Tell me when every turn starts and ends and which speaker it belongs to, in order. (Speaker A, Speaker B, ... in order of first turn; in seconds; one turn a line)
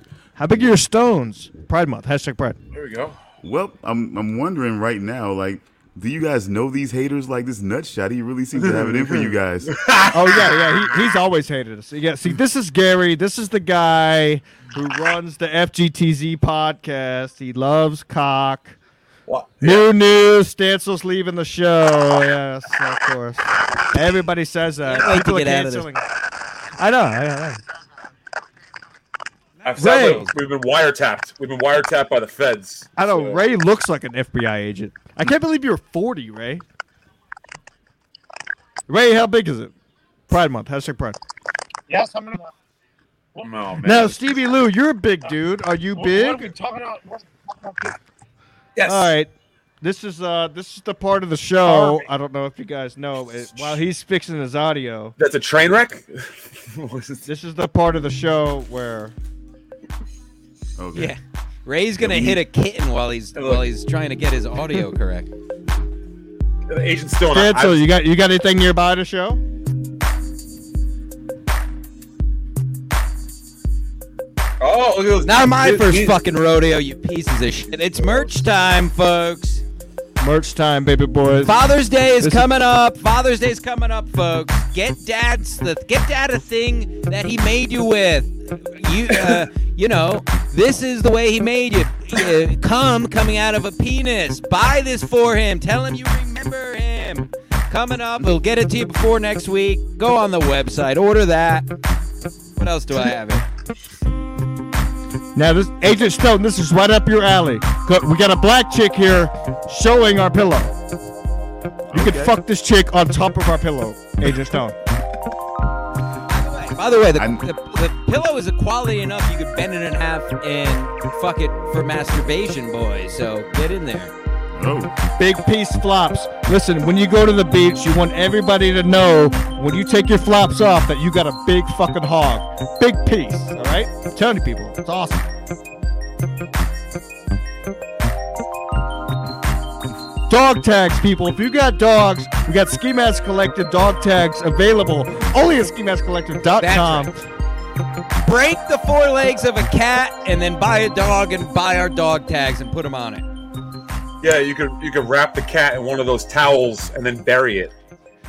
Speaker A: 0.4-2.6
Speaker B: 2.7-3.2
Speaker C: 3.4-9.8
Speaker B: 8.6-10.9
Speaker A: 10.1-18.8
Speaker B: 19.3-19.9
Speaker A: 19.6-26.1
Speaker D: 24.9-25.9
Speaker A: 26.8-27.6
Speaker B: 29.6-33.4
Speaker D: 29.7-30.2
Speaker A: 29.8-30.3
Speaker A: 33.0-36.6
Speaker A: 38.9-39.7
Speaker A: 40.3-41.2
Speaker E: 41.9-42.5
Speaker B: 43.4-44.5
Speaker A: 43.8-46.5
Speaker E: 46.0-48.0
Speaker B: 48.8-49.1
Speaker A: 48.8-55.2
Speaker B: 51.6-52.1
Speaker B: 53.5-53.8
Speaker B: 55.2-57.3
Speaker A: 57.3-59.1
Speaker C: 60.8-61.1
Speaker D: 60.9-65.3
Speaker C: 62.0-62.4
Speaker B: 63.4-63.6
Speaker B: 66.7-67.8
Speaker A: 67.3-69.4
Speaker B: 74.6-76.2
Speaker D: 75.2-79.6
Speaker B: 77.9-78.4
Speaker A: 80.2-81.6
Speaker D: 81.5-101.7
Speaker A: 82.2-82.5
Speaker D: 102.6-103.5
Speaker A: 105.3-110.7
Speaker C: 111.9-112.4
Speaker A: 111.9-114.8
Speaker D: 116.3-124.1
Speaker C: 117.2-117.5
Speaker C: 124.6-124.9
Speaker A: 125.2-135.3
Speaker A: 140.3-147.2
Speaker D: 146.6-147.1
Speaker D: 148.2-153.2
Speaker B: 154.2-157.7